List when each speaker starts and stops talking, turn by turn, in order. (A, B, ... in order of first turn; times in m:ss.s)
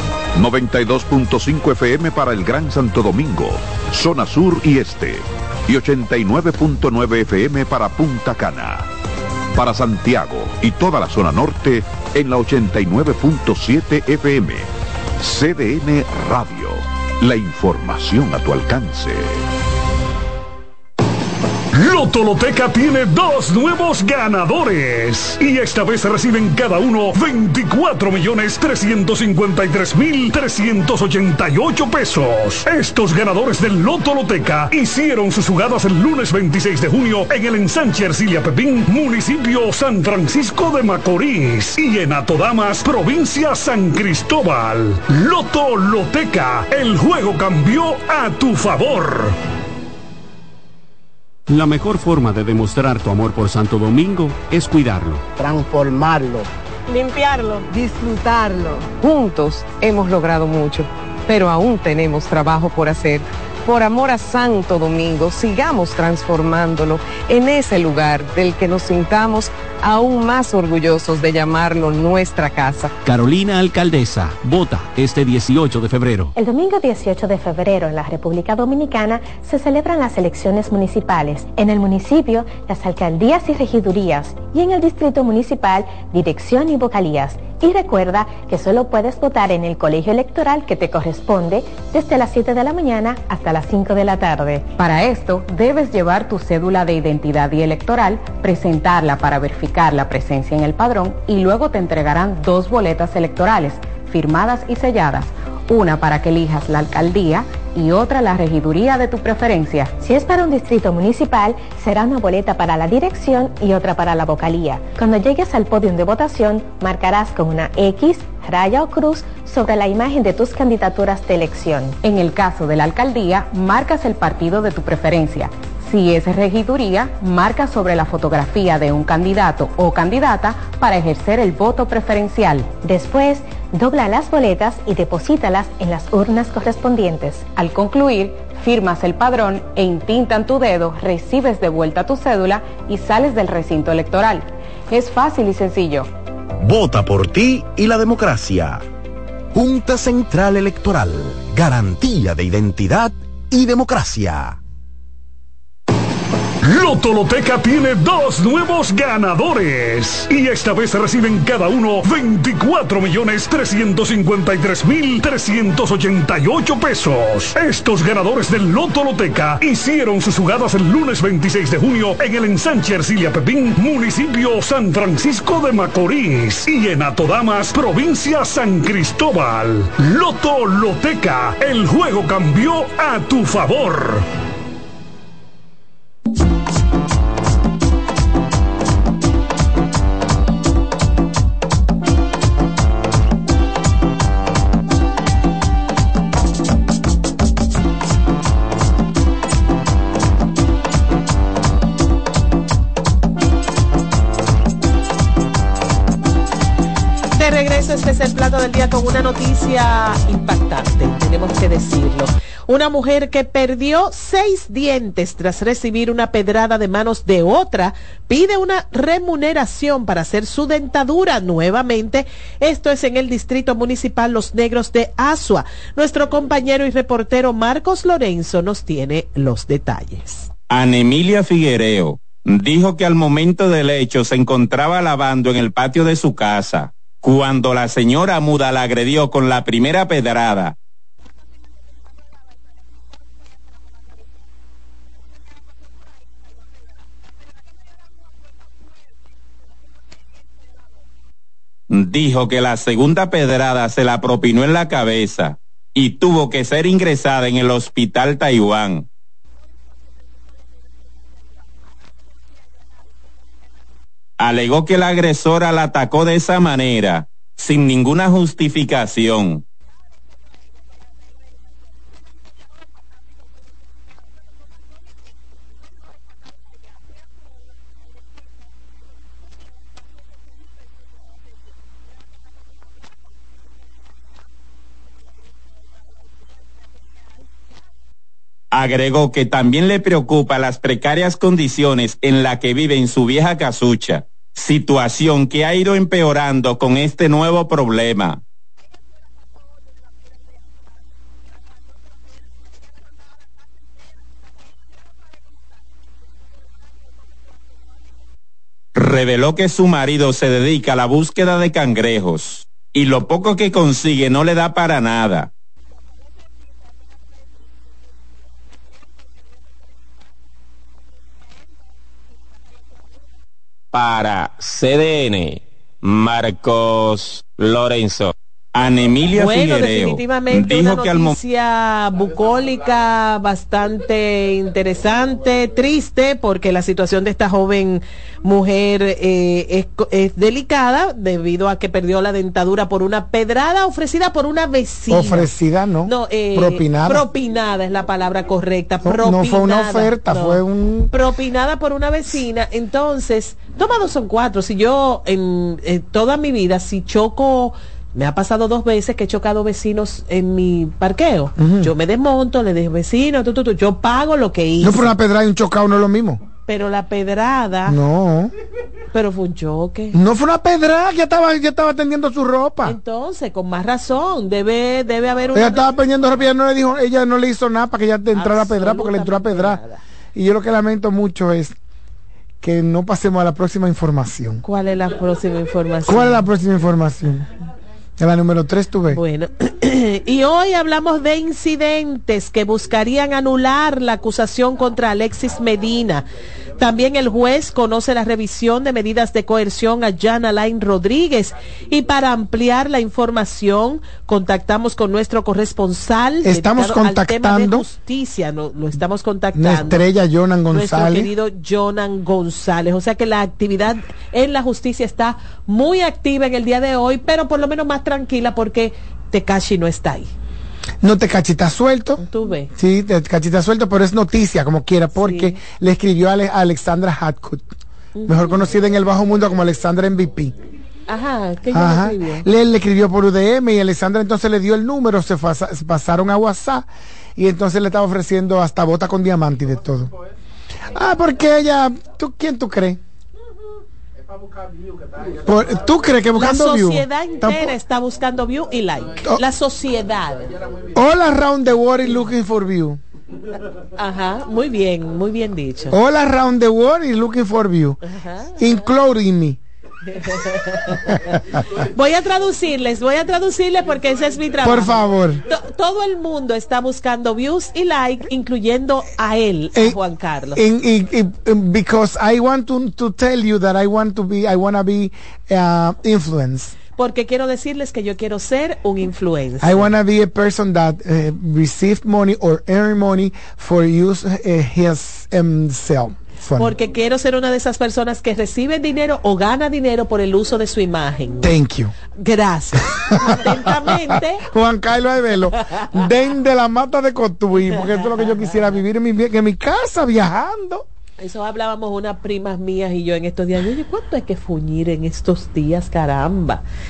0:00.3-0:08.9 A
0:09.5-0:14.7 A
0:15.2-0:19.4 A
0:21.8-0:49.3 B
0:55.4-0:56.5 C
0:57.7-0:58.9 C
0:58.9-1:12.9 D
1:13.0-1:16.3 E
1:16.3-1:34.7 F
1:34.8-1:50.0 G
1:50.0-2:02.0 F
2:02.0-2:12.8 G
2:12.8-2:17.6 F
2:17.5-2:26.1 G
2:26.6-2:28.8 H
2:29.6-2:34.5 H
2:36.6-3:04.2 B
3:27.3-3:50.5 I
3:50.7-4:00.7 J
4:11.9-4:19.0 J
4:24.4-4:29.6 J
4:48.7-4:58.4 J
5:08.9-5:15.5 J
5:23.9-5:31.4 J
5:29.3-5:45.5 I
5:45.1-5:47.2 K
5:46.0-5:50.6 I
5:49.0-5:51.1 K
5:51.1-6:05.1 I
6:01.6-6:01.9 K
6:04.8-6:06.4 K
6:06.7-6:08.0 I
6:07.8-6:08.5 K
6:09.1-6:10.2 I
6:10.1-6:13.0 K
6:12.8-6:15.9 I
6:15.5-6:19.8 K
6:18.3-6:20.0 I
6:20.3-6:21.8 K
6:22.6-6:24.6 K
6:24.6-6:26.4 I
6:26.0-6:27.5 K
6:28.2-6:29.2 K
6:29.1-6:36.3 I
6:36.8-6:50.0 I
6:46.4-6:47.8 K
6:49.5-6:51.3 K
6:50.7-7:00.3 I
7:01.0-7:02.2 K
7:02.2-7:02.7 I
7:02.7-7:07.7 K
7:05.2-7:05.6 I
7:08.2-7:08.6 I
7:08.2-7:10.5 K
7:11.1-7:12.4 I
7:11.7-7:20.1 K
7:20.9-7:23.0 K
7:25.4-7:27.8 K
7:26.4-7:30.4 I
7:30.9-7:33.0 K
7:34.0-7:36.0 I
7:35.9-7:38.0 K
7:38.1-7:38.5 I
7:38.6-7:39.6 K
7:40.2-7:40.9 I
7:40.9-7:41.4 K
7:41.9-7:50.6 I
7:44.6-7:45.4 K
7:50.5-7:56.8 K
7:56.9-7:59.9 I
7:59.6-8:06.7 K
8:06.6-8:11.5 I
8:11.4-8:11.9 K
8:12.1-8:14.4 I
8:13.1-8:20.8 K
8:17.7-8:18.5 I
8:21.2-8:26.6 I